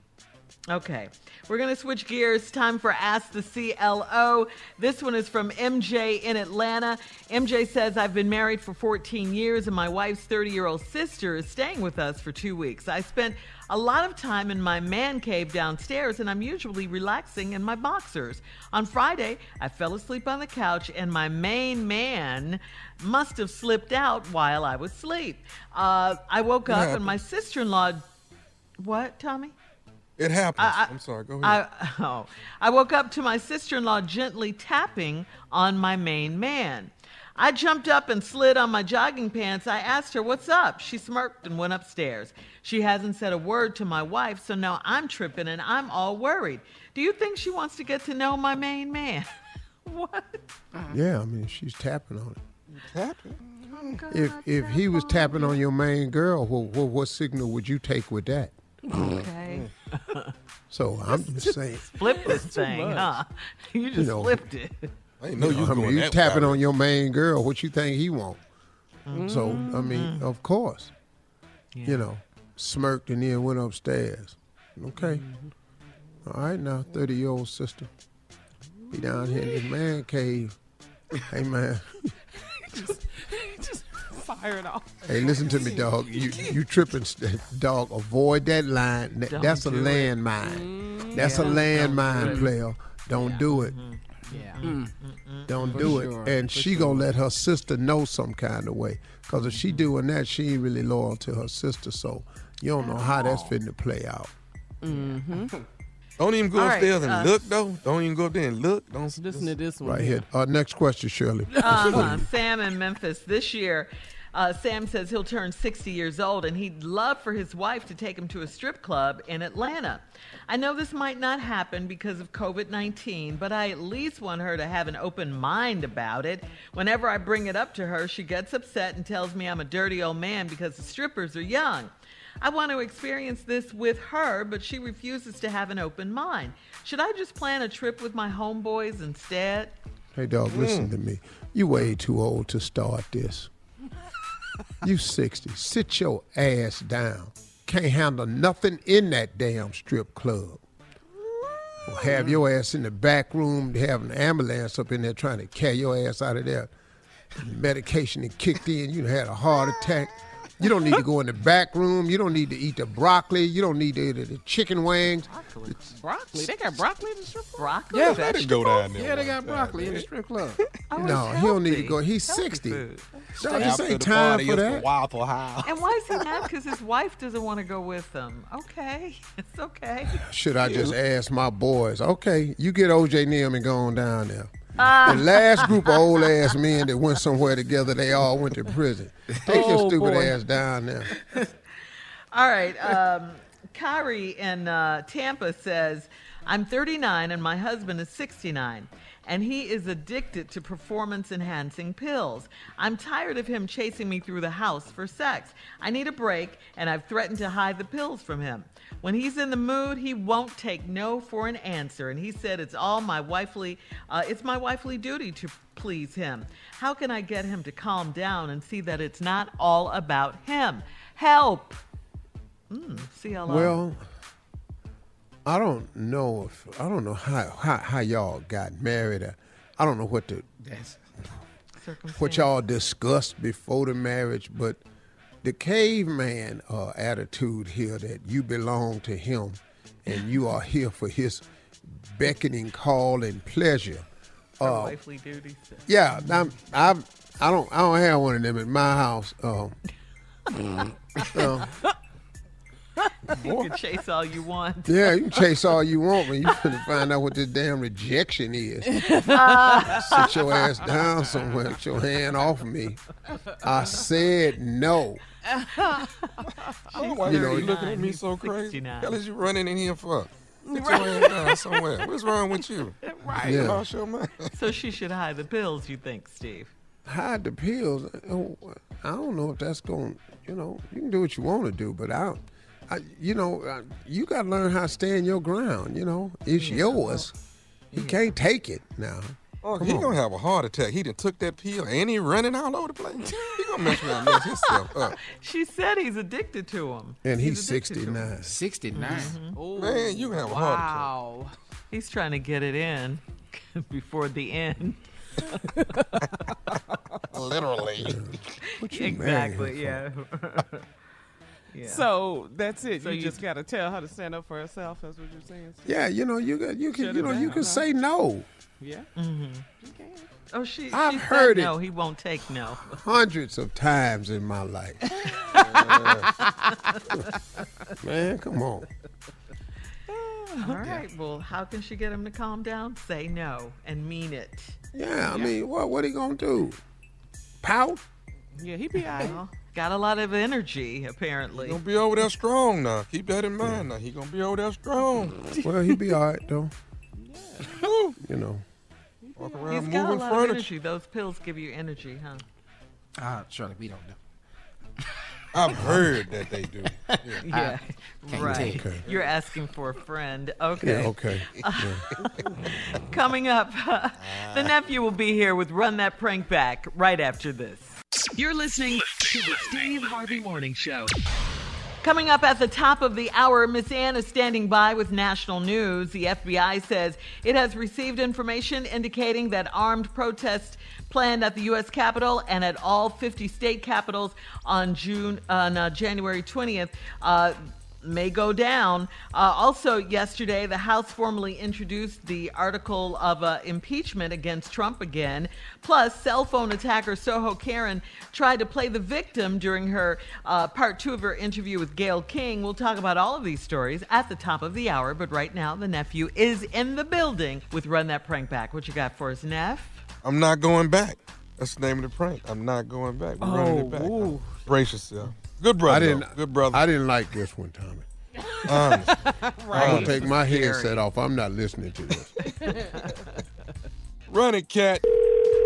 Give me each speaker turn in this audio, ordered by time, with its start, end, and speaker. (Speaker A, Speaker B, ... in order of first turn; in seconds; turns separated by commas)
Speaker A: 0.7-28.0, Speaker B: 26.7-27.1, Speaker A: 28.8-29.5, Speaker B: 30.2-31.6, Speaker A: 30.6-49.3, Speaker A: 49.8-50.4, Speaker C: 50.9-52.4, Speaker B: 52.7-53.4, Speaker A: 53.7-55.6, Speaker C: 54.1-58.5, Speaker A: 59.0-60.3, Speaker C: 60.7-61.9, Speaker D: 61.4-63.1, Speaker A: 61.8-64.9, Speaker C: 64.0-64.4, Speaker B: 65.2-66.6, Speaker C: 65.3-68.4, Speaker A: 69.1-70.2, Speaker D: 69.1-70.0, Speaker C: 69.2-70.9, Speaker A: 71.7-72.0, Speaker C: 71.8-75.2, Speaker A: 75.0-75.3, Speaker C: 76.2-77.9, Speaker C: 78.9-80.5, Speaker C: 81.3-82.0, Speaker D: 82.7-86.5, Speaker C: 85.0-93.8, Speaker A: 89.3-90.1, Speaker D: 90.4-92.5, Speaker A: 91.2-92.5, Speaker E: 92.2-92.5, Speaker D: 93.2-93.4, Speaker A: 93.5-96.1, Speaker D: 94.3-94.5, Speaker E: 94.3-94.9, Speaker C: 95.5-104.3, Speaker E: 95.7-97.1, Speaker E: 103.1-103.5, Speaker D: 104.8-105.5, Speaker E: 104.9-105.6, Speaker B: 106.2-109.5, Speaker A: 106.5-107.5, Speaker D: 109.2-110.2, Speaker C: 109.8-112.2, Speaker A: 111.6-139.8, Speaker C: 140.1-143.5, Speaker B: 140.5-140.9, Speaker C: 144.8-150.6, Speaker C: 151.8-156.7, Speaker C: 157.4-165.8, Speaker A: 165.2-165.9, Speaker D: 166.0-167.7, Speaker A: 167.6-168.8, Speaker E: 167.9-168.2, Speaker B: 168.1-170.1, Speaker E: 168.9-170.6, Speaker A: 170.9-173.0, Speaker C: 171.0-172.8, Speaker C: 173.4-174.9, Speaker B: 173.4-175.4, Speaker E: 173.4-174.0, Speaker E: 175.0-175.7, Speaker A: 175.6-180.2, Speaker C: 180.1-191.1, Speaker A: 184.8-186.0, Speaker D: 189.5-190.4, Speaker A: 192.3-221.8, Speaker A: 222.7-223.8, Speaker C: 223.4-224.1, Speaker C: 225.4-230.5, Speaker E: 230.6-231.0, Speaker A: 231.8-232.5, Speaker C: 232.1-234.8, Speaker C: 235.4-244.1, Speaker C: 244.6-244.9, Speaker A: 244.6-246.2, Speaker C: 245.9-249.7, Speaker C: 251.3-251.7, Speaker A: 253.3-255.1, Speaker C: 254.8-259.0, Speaker D: 258.9-259.8, Speaker A: 259.2-260.6, Speaker C: 259.8-263.0, Speaker C: 263.6-265.2, Speaker A: 265.8-269.2, Speaker D: 266.9-267.2, Speaker B: 266.9-274.5, Speaker C: 267.2-267.7, Speaker D: 270.7-271.5, Speaker A: 270.8-271.5, Speaker D: 273.3-273.7, Speaker C: 273.4-273.8, Speaker A: 274.5-276.7, Speaker C: 277.1-287.3, Speaker A: 286.6-287.2, Speaker A: 287.9-288.2, Speaker C: 287.9-290.2, Speaker B: 289.6-295.1, Speaker A: 293.9-298.3, Speaker C: 297.2-298.5, Speaker E: 298.4-299.4, Speaker A: 298.9-299.5, Speaker D: 299.5-301.5, Speaker B: 299.8-301.1, Speaker A: 301.9-305.6, Speaker B: 307.3-308.2, Speaker C: 308.0-310.0, Speaker A: 308.9-310.9, Speaker A: 311.7-312.1, Speaker D: 311.8-316.0, Speaker A: 313.0-313.4, Speaker C: 315.8-318.4, Speaker D: 316.9-317.9, Speaker A: 317.2-317.5, Speaker D: 318.8-319.1, Speaker A: 319.1-319.6, Speaker D: 319.8-320.3, Speaker A: 320.5-322.9, Speaker C: 320.9-321.7, Speaker C: 322.9-325.0, Speaker D: 325.2-327.0, Speaker B: 325.7-326.3, Speaker C: 328.0-328.9, Speaker D: 330.1-331.0, Speaker A: 330.6-335.5, Speaker C: 334.9-336.8, Speaker C: 337.6-338.0, Speaker D: 338.6-339.4, Speaker A: 339.1-341.8, Speaker B: 341.6-345.4, Speaker C: 345.6-346.7, Speaker D: 347.2-347.7, Speaker B: 347.7-348.1, Speaker C: 348.2-348.6, Speaker D: 349.2-349.8, Speaker B: 349.4-350.7, Speaker A: 349.7-352.4, Speaker E: 353.2-354.1, Speaker B: 355.5-357.4, Speaker E: 355.7-356.2, Speaker E: 356.9-357.8, Speaker A: 357.4-367.9, Speaker E: 358.3-359.0, Speaker C: 358.4-359.0, Speaker C: 360.8-362.0, Speaker B: 364.3-364.7, Speaker F: 368.4-371.1, Speaker A: 372.0-410.0, Speaker B: 410.2-416.9, Speaker D: 413.4-414.6, Speaker C: 415.8-418.1, Speaker B: 418.7-419.1, Speaker D: 419.1-420.1, Speaker A: 419.7-421.0, Speaker B: 419.7-420.2, Speaker C: 419.7-422.3, Speaker A: 422.6-423.2, Speaker D: 422.6-423.0, Speaker B: 424.3-425.0